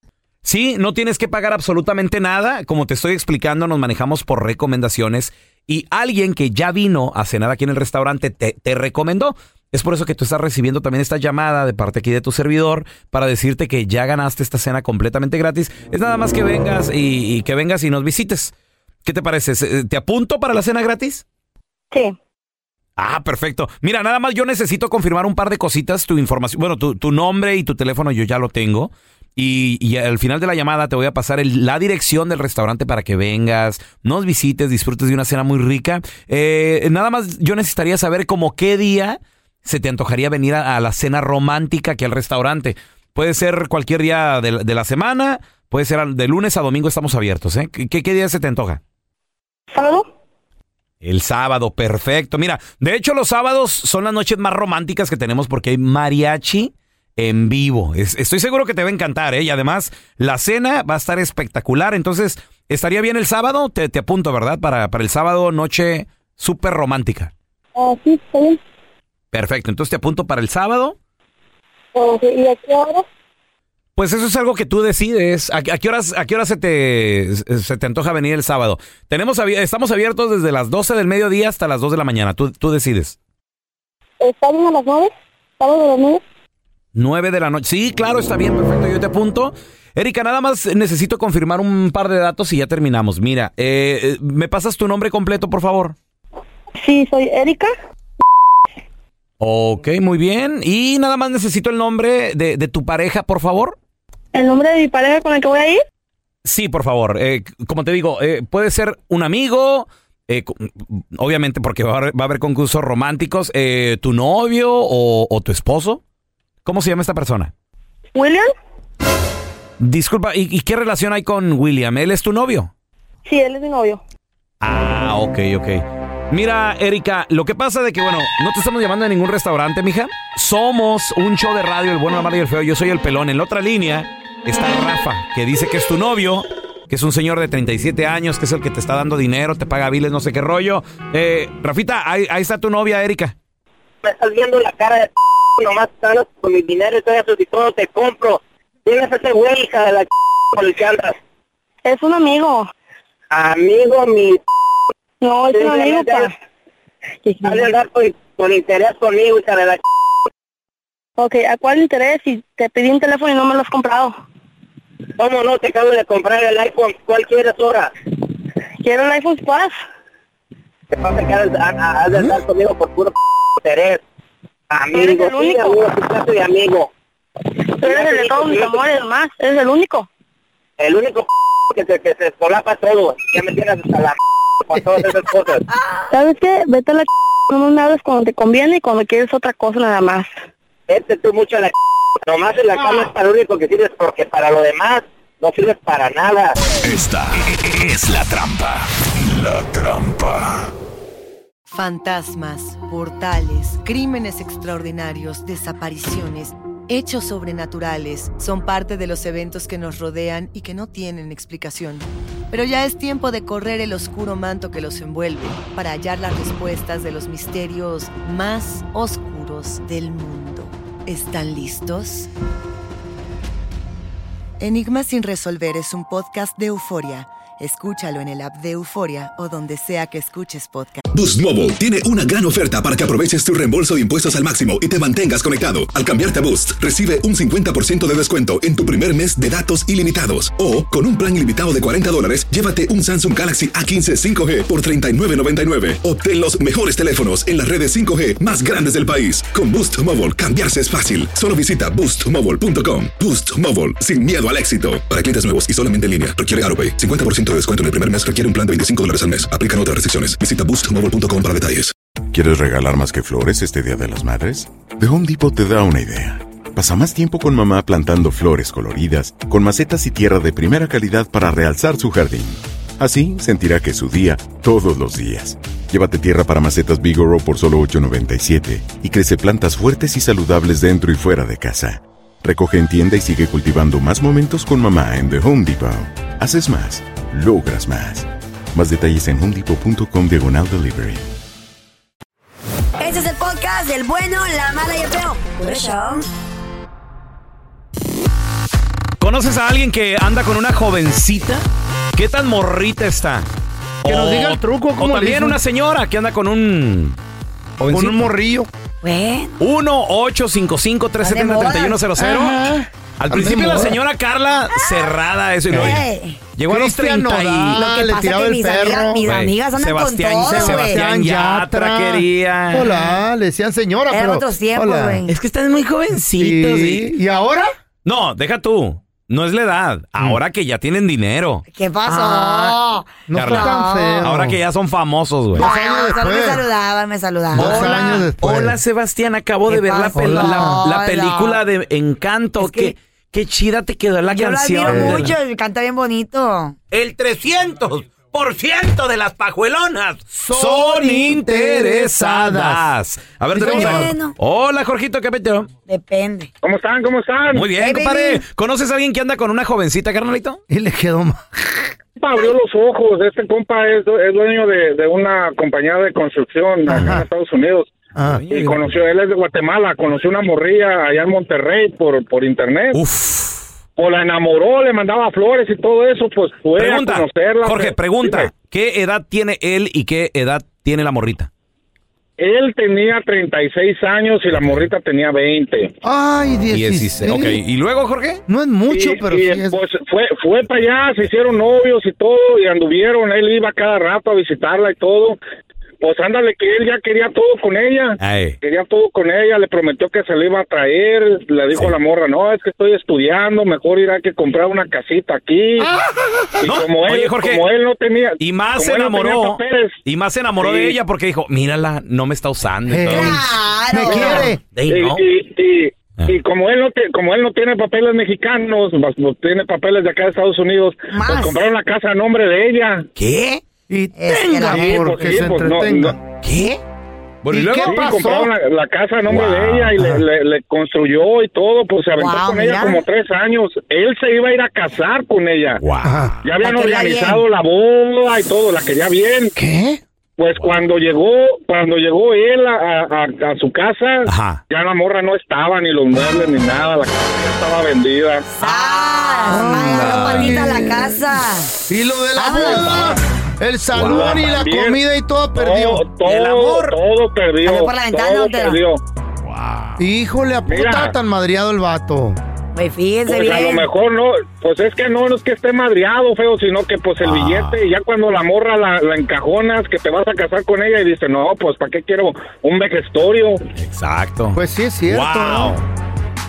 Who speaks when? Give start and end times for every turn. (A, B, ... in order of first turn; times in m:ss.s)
0:00.4-0:18.5 A
0:19.1-0:21.2 A
0:23.0-0:48.8 A
0:49.7-0:50.1 B
0:51.0-1:07.3 A
1:07.8-1:08.6 B
1:09.3-1:11.0 A
1:12.0-1:13.0 B
1:14.0-1:23.2 A
1:24.2-1:26.2 B
1:27.0-1:36.0 A
1:36.8-1:37.7 B
1:39.4-1:43.8 A
1:44.3-1:45.8 B
1:46.5-1:56.0 A
1:56.7-1:57.5 A
1:58.2-1:58.5 B
1:59.8-2:02.7 A
2:03.3-2:04.0 B
2:04.6-2:05.8 A
2:06.3-2:23.3 A
2:24.0-2:31.1 C
2:31.8-2:32.7 B
2:33.3-2:34.4 C
2:35.2-2:36.3 B
2:35.5-2:36.3 C
2:37.2-2:37.7 B
2:37.4-2:39.8 C
2:41.2-2:44.2 B
2:45.2-2:47.9 C
2:48.8-2:49.8 B
2:50.9-2:54.0 C
2:54.7-2:56.9 C
2:54.9-2:55.8 B
2:57.8-2:58.9 C
2:57.8-3:00.1 B
3:00.8-3:05.6 C
3:04.8-3:05.0 D
3:06.1-3:10.3 B
3:10.9-3:11.7 C
3:12.3-3:16.6 C
3:16.8-3:20.6 E
3:21.7-3:42.3 F
3:44.6-3:51.0 F
3:51.1-4:21.9 G
4:22.3-4:51.3 H
4:53.0-4:56.3 I
4:59.2-5:01.6 A
5:02.2-5:03.5 A
5:04.0-5:07.2 A
5:04.0-5:05.6 D
5:07.8-5:08.2 A
5:07.9-5:08.7 D
5:09.0-5:09.6 I
5:09.6-5:12.6 A
5:11.2-5:12.0 I
5:12.2-5:14.0 D
5:13.2-5:16.0 A
5:14.8-5:15.0 I
5:15.7-5:16.4 I
5:16.6-5:17.8 A
5:16.7-5:19.2 D
5:17.7-5:21.0 I
5:19.2-5:23.2 A
5:20.5-5:25.2 D
5:24.1-5:25.3 I
5:25.3-5:27.0 A
5:26.4-5:27.7 D
5:28.1-5:31.6 A
5:31.7-5:34.2 I
5:32.1-5:32.7 D
5:33.3-5:34.6 D
5:33.4-5:35.6 A
5:35.6-5:36.6 D
5:35.6-5:38.3 I
5:37.5-5:38.8 D
5:37.6-5:45.3 A
5:39.7-5:41.6 I
5:40.2-5:40.8 D
5:42.6-5:42.9 I
5:44.3-5:46.8 I
5:44.9-5:45.3 D
5:46.9-5:50.2 J
5:50.3-5:52.9 D
5:50.5-5:55.7 A
5:53.5-5:54.1 D
5:53.6-5:54.4 I
5:55.9-5:56.5 I
5:56.6-5:57.7 K
5:57.5-6:00.6 A
5:57.7-5:58.4 I
6:00.7-6:01.8 D
6:02.2-6:07.9 K
6:06.9-6:07.3 D
6:08.2-6:08.4 D
6:08.3-6:09.0 A
6:08.5-6:13.0 K
6:12.9-6:13.6 A
6:14.0-6:18.5 K
6:16.8-6:21.5 A
6:22.4-6:25.9 K
6:24.5-6:24.8 A
6:26.0-6:27.6 D
6:26.7-6:28.4 A
6:28.5-6:29.8 D
6:28.9-6:35.4 K
6:36.0-6:45.9 K
6:38.2-6:38.6 A
6:45.8-6:46.7 D
6:46.6-6:50.0 K
6:46.7-6:47.6 A
6:48.4-6:53.5 A
6:50.6-6:51.0 K
6:52.9-6:54.6 D
6:53.1-6:54.5 I
6:54.9-7:03.1 K
7:01.1-7:01.6 I
7:03.2-7:03.6 A
7:03.9-7:06.2 D
7:04.2-7:05.1 I
7:04.7-7:06.2 K
7:07.5-7:08.0 A
7:07.5-7:08.5 D
7:07.8-7:15.8 K
7:09.3-7:10.0 A
7:12.2-7:13.1 I
7:15.8-7:16.4 A
7:16.0-7:16.3 D
7:16.4-7:19.5 K
7:16.6-7:17.4 I
7:19.6-7:20.0 D
7:20.4-7:28.4 K
7:24.3-7:24.6 A
7:28.6-7:31.7 I
7:29.5-7:31.2 D
7:29.8-7:30.6 A
7:31.9-7:36.1 D
7:32.4-7:33.2 I
7:33.9-7:34.4 A
7:34.0-7:35.0 K
7:35.6-7:39.0 K
7:37.6-7:38.8 I
7:39.5-7:40.0 A
7:40.0-7:42.4 D
7:40.7-7:41.2 K
7:42.8-7:43.9 I
7:43.3-7:53.6 K
7:47.2-7:47.8 A
7:53.8-7:54.6 A
7:54.6-7:55.7 D
7:55.1-7:55.8 A